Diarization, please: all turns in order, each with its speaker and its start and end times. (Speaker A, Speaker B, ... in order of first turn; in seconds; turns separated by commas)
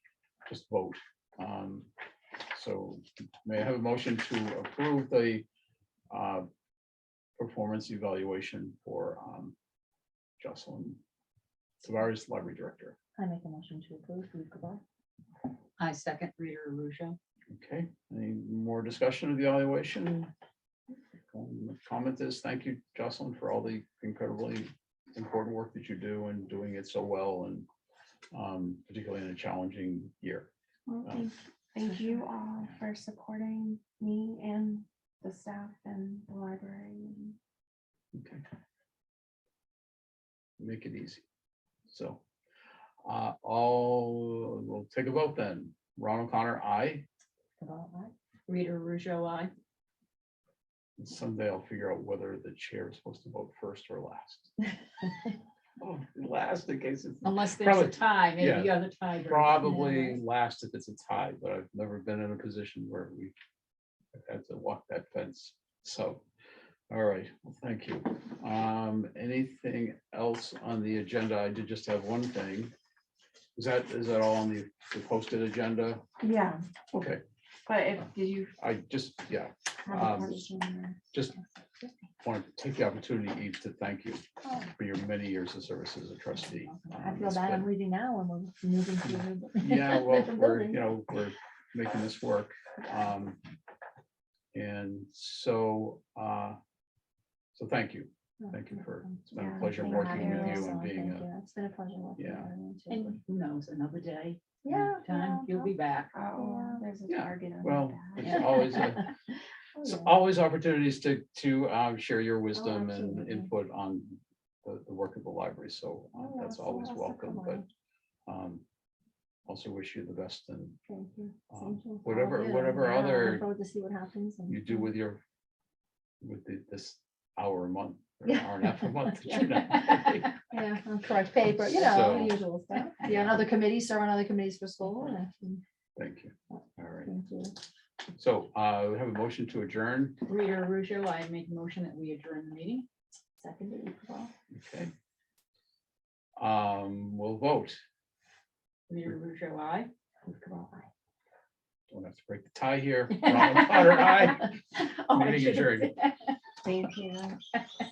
Speaker A: 0.5-1.9, Speaker A: 2.5-5.5, Speaker A: 6.1-6.5, Speaker A: 7.4-9.6, Speaker A: 10.4-11.0, Speaker A: 11.8-13.0, Speaker B: 13.2-14.8, Speaker C: 15.8-17.2, Speaker A: 17.5-20.3, Speaker A: 21.3-27.7, Speaker A: 28.3-30.5, Speaker D: 30.9-37.4, Speaker A: 38.1-38.4, Speaker A: 40.6-41.2, Speaker A: 41.9-42.2, Speaker A: 43.0-47.0, Speaker B: 47.6-48.1, Speaker C: 48.5-49.5, Speaker A: 51.0-54.5, Speaker A: 55.8-63.3, Speaker C: 57.2-60.2, Speaker A: 64.1-66.2, Speaker A: 66.9-72.7, Speaker A: 73.5-76.0, Speaker D: 76.2-76.6, Speaker A: 76.9-77.2, Speaker D: 77.7-78.5, Speaker A: 78.6-80.5, Speaker D: 79.8-81.0, Speaker B: 81.6-82.0, Speaker A: 82.2-87.7, Speaker B: 84.4-84.7, Speaker B: 86.4-90.9, Speaker A: 89.0-93.4, Speaker A: 94.5-96.6, Speaker A: 97.5-101.3, Speaker B: 98.4-103.2, Speaker D: 99.4-100.7, Speaker A: 102.2-102.5, Speaker C: 102.9-106.2, Speaker B: 104.7-105.7, Speaker D: 106.1-108.7, Speaker B: 106.3-106.8, Speaker A: 107.1-109.0, Speaker B: 108.4-109.1, Speaker B: 109.8-110.1, Speaker A: 109.8-117.6, Speaker B: 112.6-113.5, Speaker B: 116.2-117.7, Speaker A: 118.3-118.6, Speaker A: 119.5-120.8, Speaker B: 120.9-124.9, Speaker A: 121.5-123.5, Speaker A: 124.5-125.2, Speaker A: 126.2-130.3, Speaker B: 128.2-135.6, Speaker A: 131.6-132.4, Speaker A: 133.0-133.4, Speaker A: 136.0-137.1, Speaker B: 136.5-137.6, Speaker A: 138.2-140.2, Speaker C: 140.3-142.9, Speaker B: 143.4-144.3, Speaker A: 144.5-144.9, Speaker A: 146.4-147.8, Speaker C: 148.9-149.9, Speaker B: 150.2-150.9, Speaker A: 151.9-154.5, Speaker C: 153.3-156.3, Speaker A: 155.1-155.9, Speaker D: 156.6-157.4